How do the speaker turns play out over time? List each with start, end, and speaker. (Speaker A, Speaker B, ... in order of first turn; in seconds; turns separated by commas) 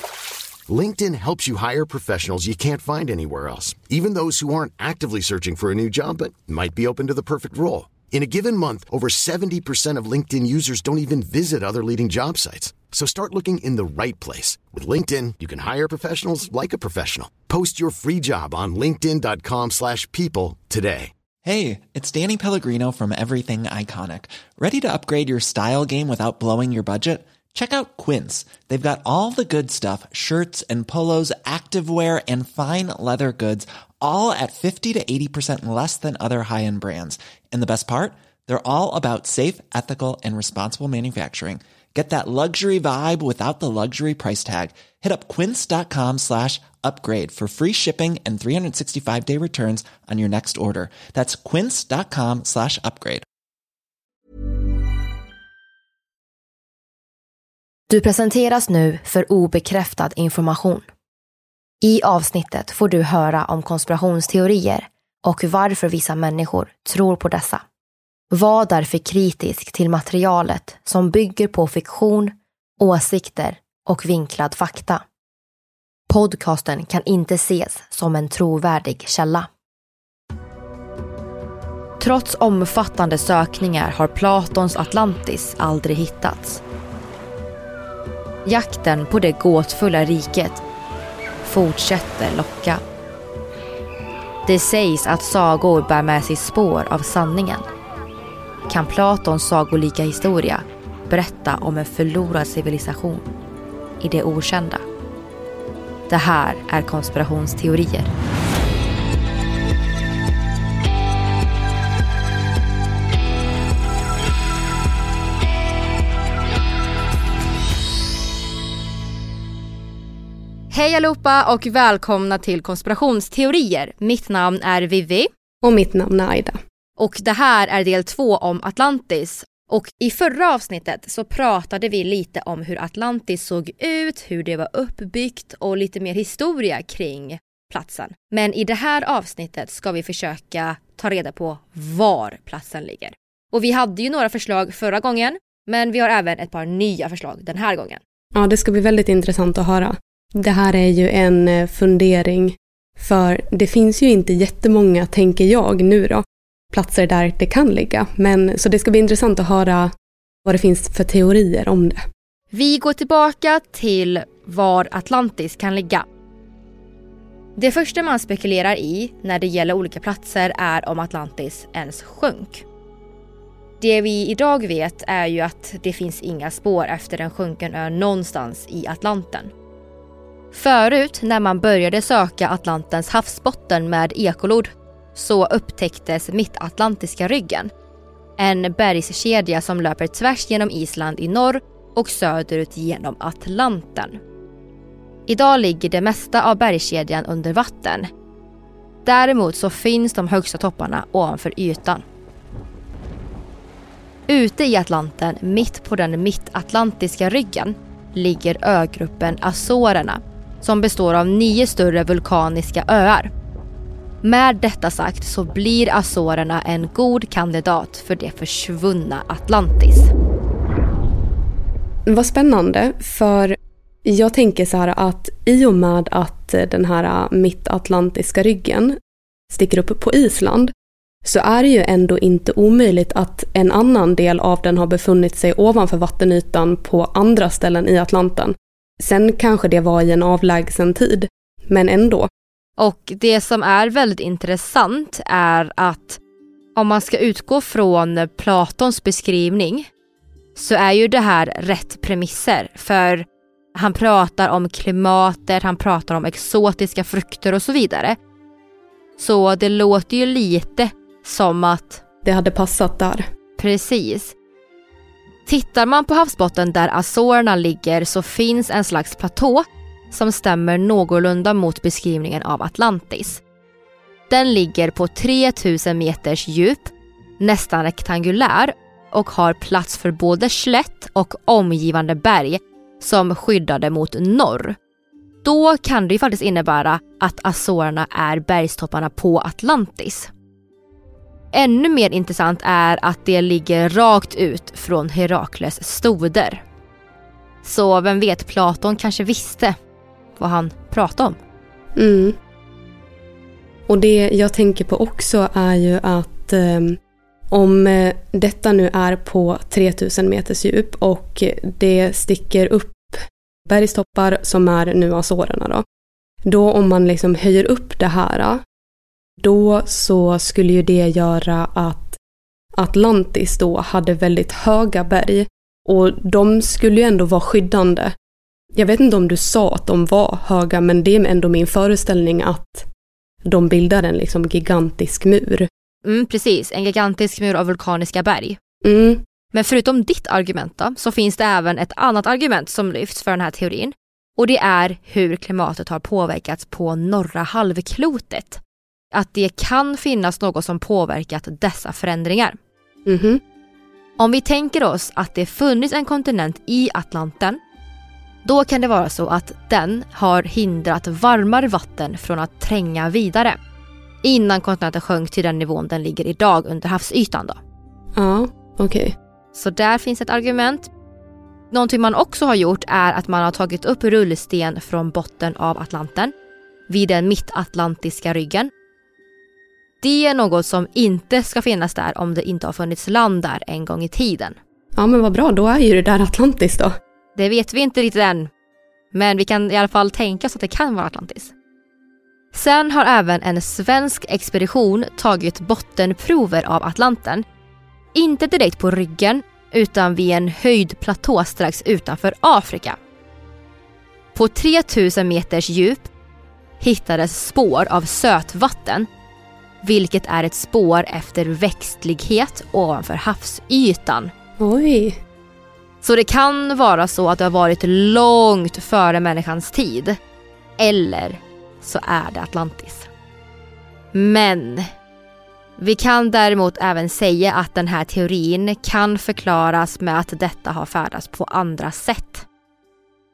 Speaker A: 0.7-21.1, Speaker B: 21.4-53.2, Speaker C: 57.9-60.9, Speaker C: 61.8-67.6, Speaker C: 68.3-75.0, Speaker C: 76.1-79.5, Speaker C: 82.0-86.6, Speaker C: 88.5-90.6, Speaker C: 91.4-92.8, Speaker C: 94.5-97.6, Speaker C: 98.7-103.3, Speaker C: 104.0-104.8, Speaker C: 106.1-108.1, Speaker D: 120.7-125.3, Speaker E: 125.6-126.6, Speaker D: 127.0-148.0, Speaker E: 148.3-159.9, Speaker E: 160.4-162.0, Speaker D: 162.5-166.1, Speaker D: 167.6-172.7, Speaker D: 173.8-179.5, Speaker D: 180.5-187.7, Speaker D: 188.4-194.2, Speaker D: 195.3-198.1, Speaker D: 199.0-202.0, Speaker D: 204.3-213.3, Speaker D: 214.2-220.1, Speaker E: 222.1-229.0, Speaker E: 229.5-230.7, Speaker E: 231.2-242.3, Speaker D: 242.8-246.2, Speaker D: 246.8-249.9, Speaker D: 250.5-258.2, Speaker D: 259.2-262.0, Speaker E: 262.2-263.3, Speaker D: 263.6-264.4, Speaker D: 265.5-273.4, Speaker D: 274.3-284.8, Speaker D: 285.4-290.3, Speaker D: 291.5-296.6, Speaker D: 297.6-299.8, Speaker D: 300.4-301.4, Speaker E: 302.0-302.4, Speaker E: 303.9-307.0, Speaker E: 307.5-315.9, Speaker E: 316.4-318.6, Speaker E: 319.4-322.2, Speaker E: 322.8-328.1, Speaker E: 328.8-332.9, Speaker E: 333.4-335.7, Speaker D: 336.0-338.6, Speaker E: 338.8-339.2, Speaker D: 339.5-348.6, Speaker D: 349.1-352.6, Speaker E: 353.1-353.4, Speaker D: 354.2-357.6, Speaker D: 358.4-363.6, Speaker D: 364.2-367.6, Speaker E: 368.1-369.1, Speaker D: 369.5-370.9, Speaker D: 371.7-376.3, Speaker D: 376.9-378.7, Speaker D: 380.0-384.6, Speaker E: 385.0-387.0, Speaker D: 387.4-388.5, Speaker D: 389.1-391.5, Speaker D: 392.5-397.4, Speaker D: 398.1-403.0, Speaker D: 404.4-406.1, Speaker D: 406.8-409.1, Speaker D: 409.8-414.3, Speaker E: 414.6-415.2, Speaker D: 416.0-420.2, Speaker D: 420.8-423.1, Speaker D: 424.1-424.9, Speaker D: 425.8-432.4